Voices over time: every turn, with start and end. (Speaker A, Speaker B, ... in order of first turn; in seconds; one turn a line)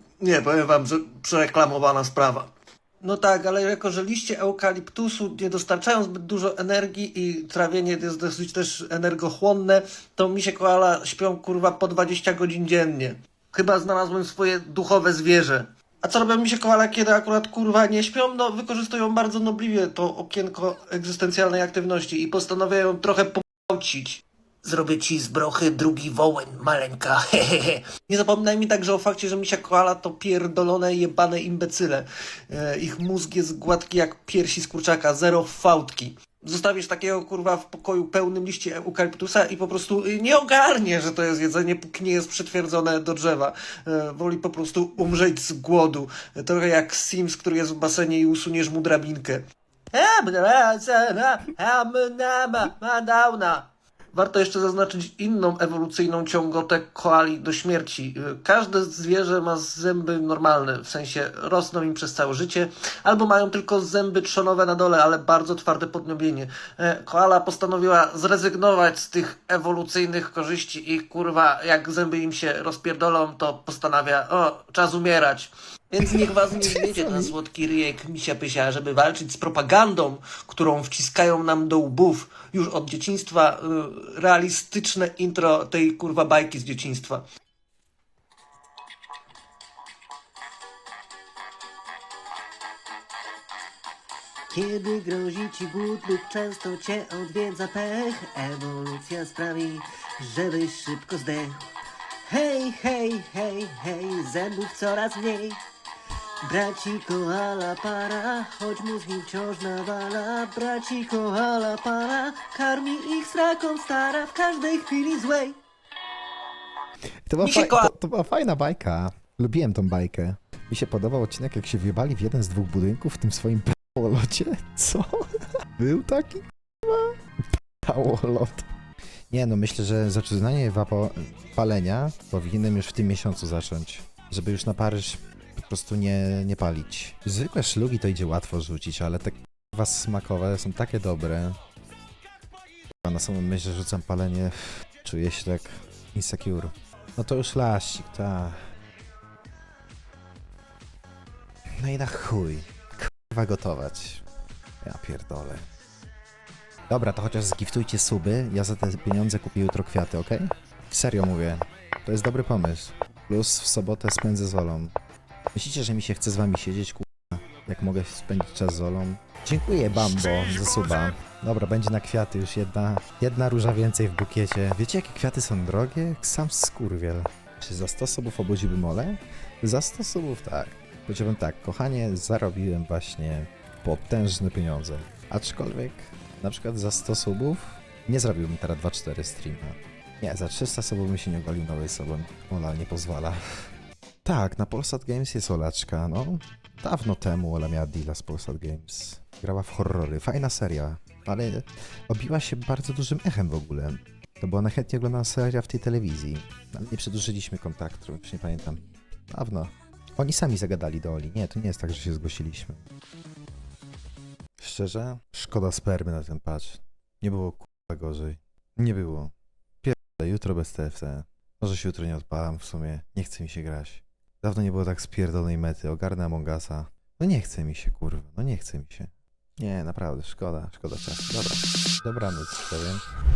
Speaker A: 0.2-87.2
Speaker B: 76.0-77.3
Speaker A: 94.5-96.6
Speaker C: 94.7-98.2
Speaker A: 98.1-98.9
Speaker C: 98.9-99.5
Speaker A: 99.6-101.5
Speaker C: 100.3-101.5
Speaker A: 102.3-102.7
Speaker C: 102.7-103.8
Speaker A: 103.8-104.6
Speaker C: 104.6-105.5
Speaker A: 106.5-115.5
Speaker C: 106.7-109.9
Speaker C: 110.7-111.1
Speaker C: 114.2-114.6
Speaker B: 117.3-125.2
Speaker A: 117.4-117.9
Speaker B: 125.8-127.2
Speaker B: 127.8-128.7
Speaker B: 129.3-141.6
Speaker B: 143.1-148.6
Speaker B: 151.8-154.2
Speaker B: 154.8-155.7
Speaker B: 156.9-164.9
Speaker B: 165.5-193.7
Speaker B: 194.2-212.8
Speaker B: 214.6-233.0